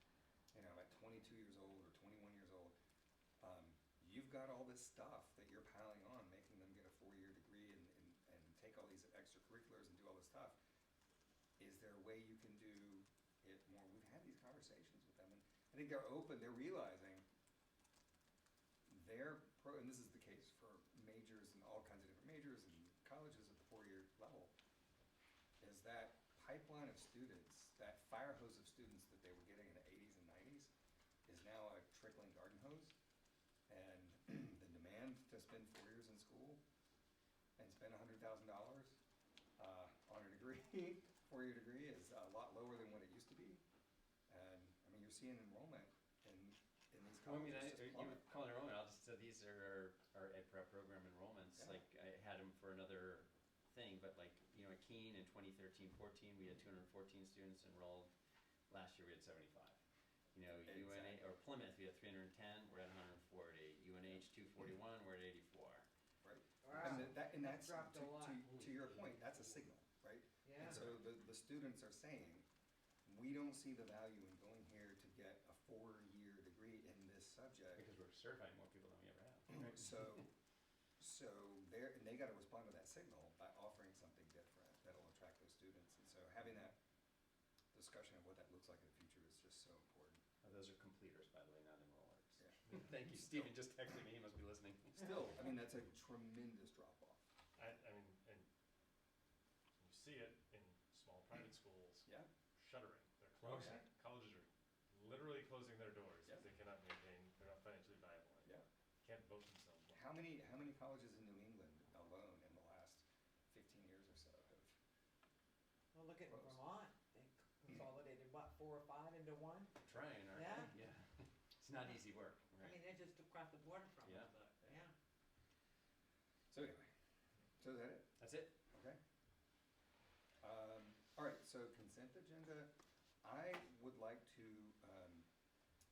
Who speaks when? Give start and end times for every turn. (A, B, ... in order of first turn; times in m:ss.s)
0:00.5-0:02.7 A
0:03.4-0:10.6 A
0:11.6-0:17.2 A
0:18.9-0:24.5 A
0:25.6-0:30.7 A
0:31.3-0:33.0 A
0:33.7-0:36.6 A
0:37.6-0:39.0 A
0:39.6-0:43.6 A
0:44.3-0:48.4 A
0:47.2-0:58.1 B
0:51.6-0:51.8 A
0:58.7-0:59.8 B
1:00.3-1:05.9 B
1:00.6-1:01.2 A
1:06.2-1:12.5 A
1:06.6-1:09.6 C
1:10.4-1:11.0 C
1:13.0-1:17.8 A
1:17.7-1:20.2 B
1:19.5-1:20.3 A
1:21.0-1:26.8 A
1:27.7-1:30.2 A
1:30.4-1:35.3 B
1:32.4-1:33.5 A
1:34.9-1:37.3 A
1:37.6-1:38.5 D
1:39.8-1:50.0 D
1:43.4-1:43.8 B
1:43.6-1:43.8 A
1:49.9-1:54.8 A
1:55.9-1:59.7 C
1:56.3-1:56.6 A
1:59.8-2:02.8 B
2:00.3-2:00.7 C
2:02.6-2:04.9 C
2:04.0-2:04.3 B
2:06.5-2:06.9 A
2:07.6-2:08.1 A
2:08.2-2:08.6 B
2:08.7-2:09.0 A
2:10.4-2:12.7 A
2:13.2-2:15.3 A